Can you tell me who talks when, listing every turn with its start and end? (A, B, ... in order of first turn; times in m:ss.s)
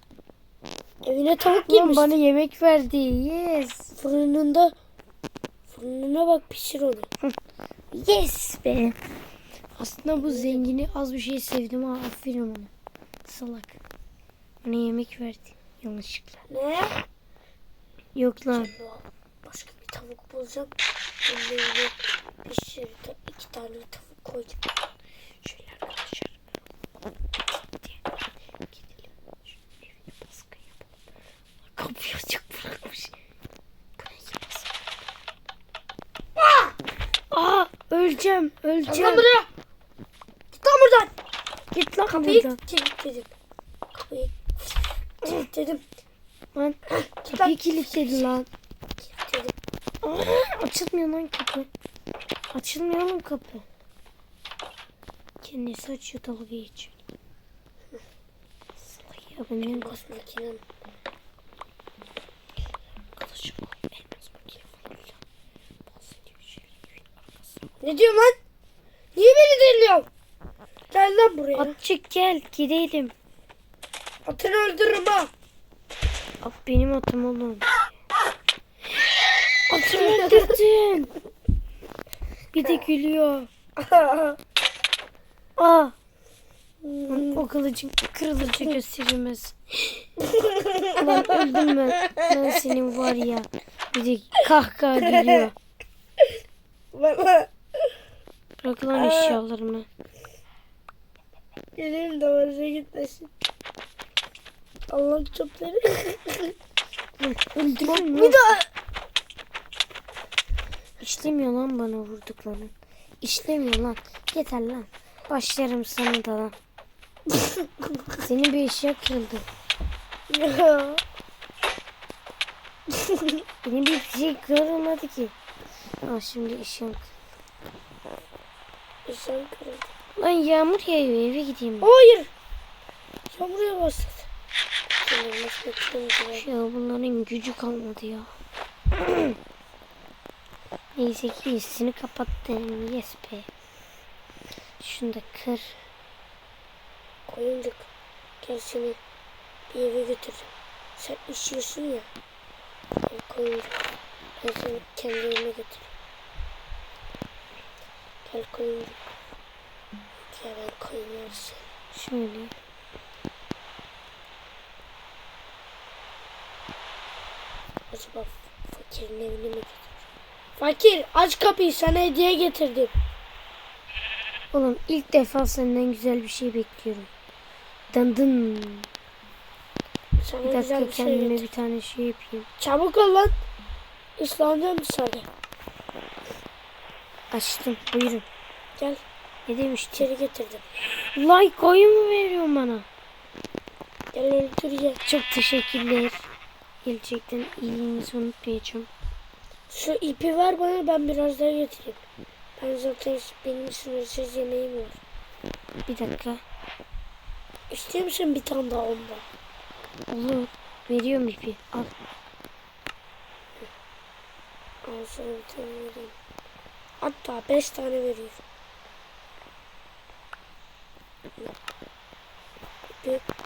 0:01.0-0:02.2 A
0:01.6-0:03.9 B
0:04.0-0:04.7 A
0:05.7-0:07.1 A
0:07.9-0:09.0 B
0:09.8-0:12.7 B
0:10.2-0:10.7 A
0:13.2-0:13.8 B
0:14.6-0:16.4 B
0:16.5-0:16.9 A
0:18.2-0:18.7 B
0:18.5-0:20.7 A
0:21.2-0:24.6 A
0:25.4-0:26.3 B
0:28.7-0:30.8 B
0:31.8-0:33.1 B
0:34.0-0:34.7 B
0:36.4-0:36.7 A
0:37.3-0:39.3 B
0:38.9-0:39.5 A
0:40.5-0:41.1 A
0:41.7-0:42.6 B
0:42.2-0:43.3 A
0:43.9-0:45.8 A
0:46.5-0:48.5 B
0:46.9-0:48.1 A
0:49.0-0:49.5 A
0:50.0-0:51.7 B
0:52.5-0:53.6 B
0:55.4-0:56.9 B
0:58.9-0:59.9 B
0:59.6-1:00.6 A
1:03.2-1:05.2 B
1:05.9-1:07.5 B
1:07.8-1:08.4 A
1:09.2-1:10.1 A
1:10.9-1:11.8 A
1:11.6-1:13.1 B
1:14.3-1:15.3 A
1:16.4-1:17.8 B
1:19.7-1:21.1 B
1:19.9-1:20.5 A
1:22.5-1:23.5 B
1:23.8-1:24.4 A
1:25.6-1:25.9 B
1:26.8-1:27.4 A
1:27.1-1:30.1 B
1:28.5-1:28.8 A
1:30.3-1:31.4 A
1:31.0-1:35.5 B
1:35.0-1:35.5 A
1:36.9-1:37.5 A
1:38.6-1:39.9 B
1:38.9-1:39.4 A
1:41.8-1:43.3 A
1:44.9-1:46.5 A
1:47.2-1:48.4 B
1:47.6-1:48.7 A
1:51.0-1:56.6 B
1:58.2-1:59.4 B
2:00.3-2:01.0 A
2:03.0-2:03.3 A
2:03.6-2:05.3 B
2:06.0-2:07.1 B
2:09.1-2:09.9 A
2:10.2-2:11.9 B
2:11.8-2:12.3 A
2:13.3-2:14.3 A
2:15.0-2:16.4 A
2:16.3-2:18.3 B
2:19.0-2:19.3 B
2:21.0-2:23.5 B
2:24.8-2:25.8 B
2:27.3-2:27.9 A
2:28.4-2:29.0 A
2:29.7-2:32.1 A
2:33.1-2:33.8 A
2:34.4-2:35.9 A
2:38.2-2:39.0 A
2:40.3-2:41.6 A
2:41.9-2:42.5 B
2:47.9-2:49.8 A
2:50.6-2:52.9 A
2:54.5-2:57.1 B
2:57.9-2:58.9 B
3:00.2-3:01.5 A
3:00.4-3:02.5 B
3:02.6-3:03.4 A
3:04.2-3:05.3 A
3:07.3-3:08.2 B
3:09.5-3:10.1 B
3:10.0-3:10.7 A
3:11.2-3:12.9 B
3:14.1-3:15.0 A
3:15.0-3:16.2 B
3:16.8-3:18.9 B
3:19.7-3:22.0 A
3:22.6-3:25.0 A
3:25.9-3:26.4 B
3:27.7-3:29.2 A
3:30.1-3:31.9 B
3:34.8-3:36.1 A
3:37.0-3:38.4 A